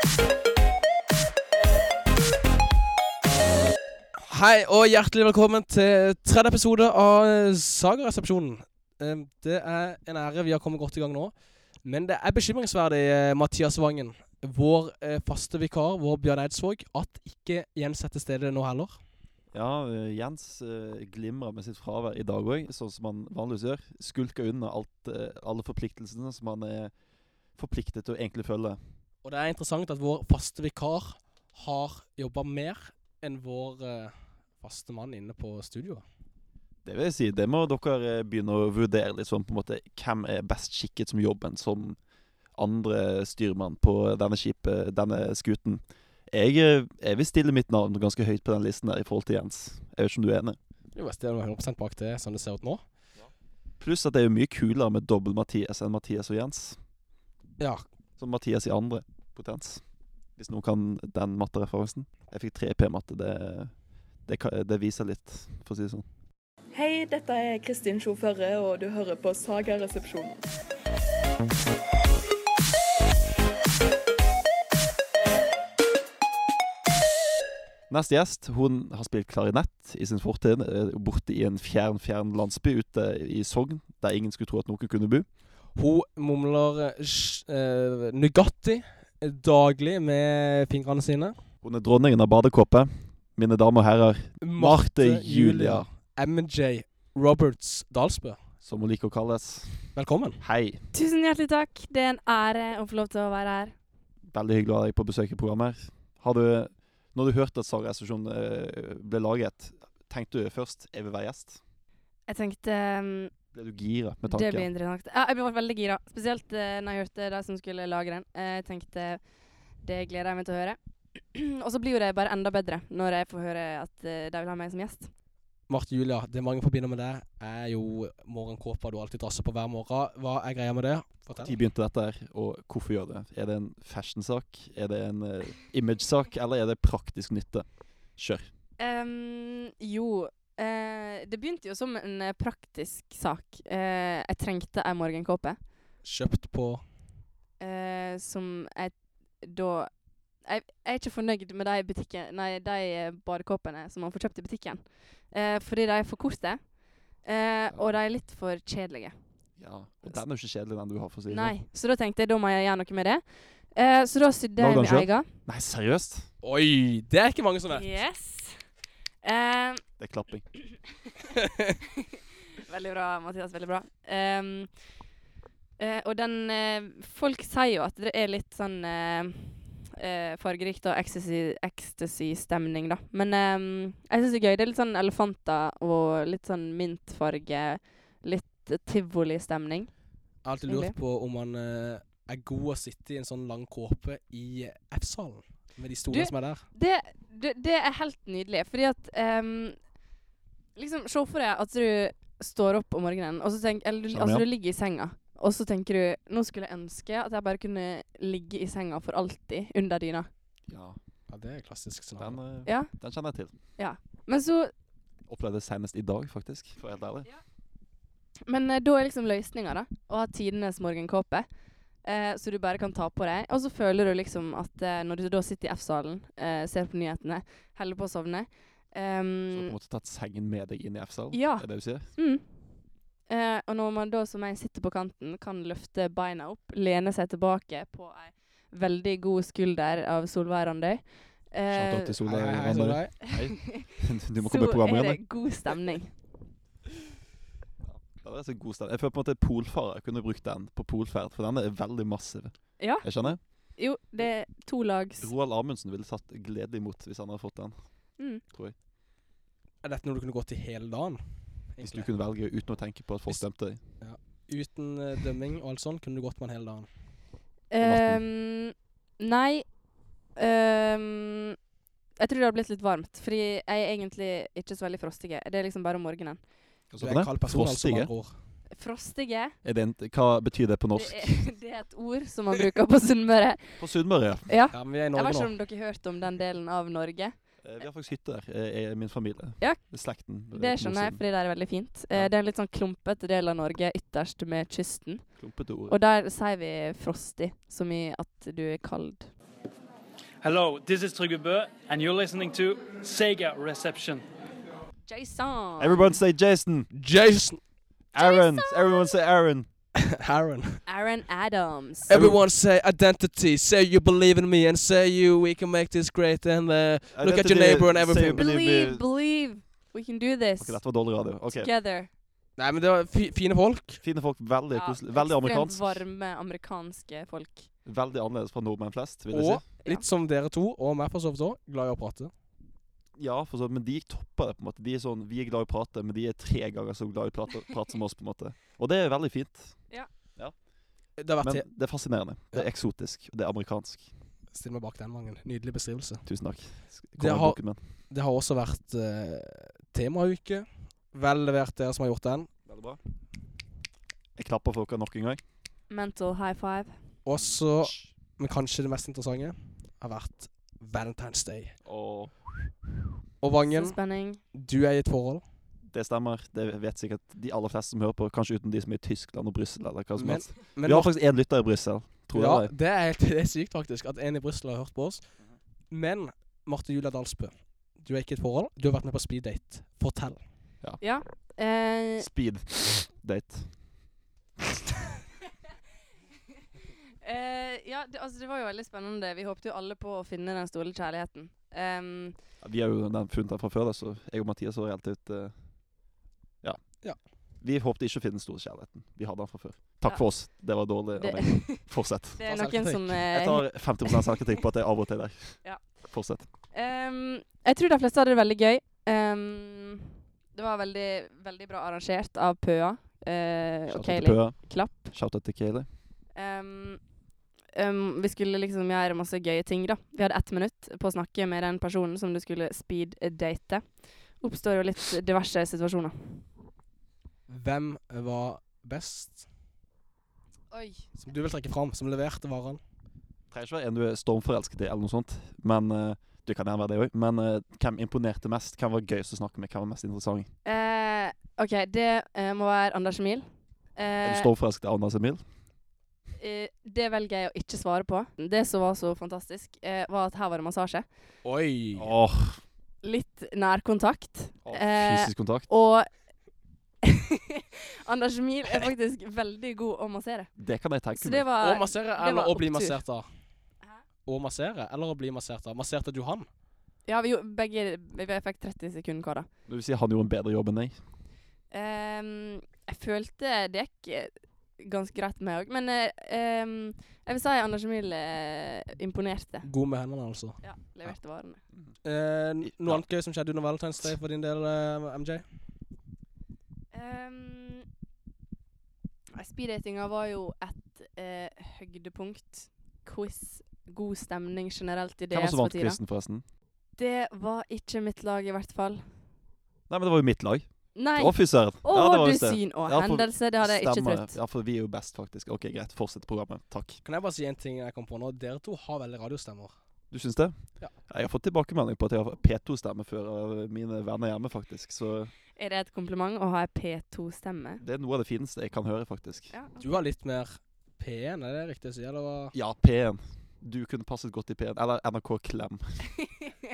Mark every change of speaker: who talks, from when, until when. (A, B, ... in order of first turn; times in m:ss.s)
0:04.2-0:11.3 A
0:11.8-0:19.0 A
0:19.5-0:26.9 B
0:27.6-0:28.8 B
0:29.2-0:36.0 A
0:36.8-0:42.0 B
0:42.6-0:50.6 B
0:50.9-0:52.8 A
0:53.8-0:56.8 B
0:58.2-0:59.8 B
1:00.4-1:03.7 B
1:04.2-1:06.0 B
1:06.7-1:10.5 C
1:17.9-1:25.3 B
1:25.8-1:31.4 A
1:31.6-1:35.9 B
1:34.4-1:38.4 A
1:38.6-1:40.8 B
1:39.9-1:40.4 A
1:40.9-1:43.7 D
1:44.3-1:51.6 B
1:52.3-1:53.3 D
1:53.5-1:54.7 B
1:54.3-1:59.2 D
1:59.8-2:05.1 D
2:05.7-2:11.6 A
2:11.4-2:18.5 B
2:18.8-2:25.6 D
2:26.0-2:26.8 A
2:27.6-2:29.9 D
2:30.4-2:36.7 D
2:37.2-2:39.1 D
2:39.6-2:41.5 B
2:41.3-2:45.3 D
2:44.6-2:46.3 B
2:46.4-2:47.8 A
2:47.7-2:48.6 D
2:49.2-2:49.8 D
2:50.0-2:50.5 B
2:52.0-2:54.7 D
2:55.8-3:09.9 D
3:10.4-3:16.6 A
3:10.6-3:11.0 D
3:16.1-3:19.8 D
3:20.8-3:30.3 D
3:24.1-3:24.4 B
3:30.7-3:31.0 B
3:31.3-3:32.4 A
3:32.2-3:33.5 B
3:33.8-3:34.7 D
3:35.3-3:37.3 B
3:38.5-3:41.5 D
3:42.0-3:49.7 D
3:49.5-3:52.1 B
3:51.3-3:52.4 D
3:53.3-4:02.2 D
4:01.7-4:05.2 B
4:02.2-4:03.2 A
4:03.2-4:06.1 D
4:07.8-4:13.4 B
4:12.8-4:15.3 D
4:15.2-4:17.7 B
4:19.8-4:21.2 A
4:21.7-4:22.1 A
4:21.8-4:23.8 B
4:24.0-4:26.9 A
4:27.7-4:29.7 D
4:27.8-4:28.2 B
4:30.4-4:31.6 D
4:32.2-4:36.4 D
4:36.9-4:38.1 B
4:37.0-4:38.3 A
4:38.7-4:39.5 D
4:39.6-4:41.4 B
4:40.9-4:43.8 D
4:43.8-4:44.5 B
4:44.5-4:47.3 D
4:44.7-4:45.5 A
4:47.6-4:51.2 B
4:50.5-4:55.2 D
4:55.4-4:56.0 B
4:55.9-4:59.3 D
5:00.4-5:04.2 E
5:05.1-5:06.2 D
5:05.8-5:06.9 B
5:06.9-5:07.6 A
5:08.1-5:09.7 B
5:08.2-5:09.0 D
5:10.0-5:10.8 A
5:10.8-5:12.1 D
5:12.1-5:18.4 A
5:12.1-5:12.4 B
5:17.1-5:19.0 B
5:18.3-5:20.8 D
5:20.6-5:21.7 B
5:21.5-5:22.1 D
5:22.6-5:24.0 A
5:24.0-5:26.0 B
5:24.7-5:27.7 D
5:27.8-5:29.6 B
5:29.3-5:32.3 A
5:33.2-5:40.5 B
5:41.2-5:41.7 A
5:41.4-5:44.1 B
5:44.5-5:46.2 A
5:46.2-5:47.8 B
5:47.2-5:52.5 A
5:52.7-5:53.0 B
5:54.4-5:55.4 B
5:55.9-5:56.9 D
5:57.2-6:01.8 A
5:57.4-5:58.1 B
6:01.8-6:02.7 B
6:03.4-6:04.0 A
6:03.7-6:04.4 D
6:04.5-6:05.4 A
6:05.9-6:12.7 B
6:10.2-6:11.1 A
6:12.3-6:15.2 A
6:15.9-6:20.4 A
6:21.0-6:22.3 D
6:22.2-6:23.7 B
6:27.2-6:32.4 D
6:32.6-6:35.5 B
6:37.6-6:42.4 B
6:41.2-6:44.4 D
6:42.4-6:43.1 A
6:43.3-6:46.4 B
6:46.7-6:55.1 D
6:53.9-6:55.9 B
6:56.4-6:57.0 D
6:57.7-7:03.8 D
7:04.4-7:06.4 D
7:07.5-7:09.5 A
7:10.7-7:11.2 D
7:11.2-7:12.8 A
7:13.5-7:20.5 B
7:20.6-7:24.5 D
7:24.2-7:25.4 B
7:26.4-7:31.1 D
7:31.4-7:32.1 A
7:31.9-7:32.6 B
7:33.0-7:36.1 D
7:34.6-7:35.7 B
7:37.0-7:40.5 D
7:40.6-7:41.5 B
7:41.1-7:43.0 D
7:41.6-7:43.2 A
7:44.2-7:46.5 A
7:47.1-7:49.5 D
7:49.7-7:51.0 B
7:51.7-7:59.7 D
7:59.6-8:00.6 A
8:00.6-8:01.6 D
8:02.0-8:05.4 A
8:02.6-8:03.0 B
8:06.9-8:07.8 D
8:09.3-8:16.0 D
8:15.3-8:16.4 B
8:17.0-8:19.0 D
8:19.9-8:27.0 B
8:20.9-8:24.3 D
8:27.0-8:29.7 A
8:30.1-8:35.3 B
8:35.6-8:37.8 D
8:37.8-8:39.5 B
8:39.5-8:40.0 D
8:39.8-8:42.5 A
8:42.5-8:46.0 B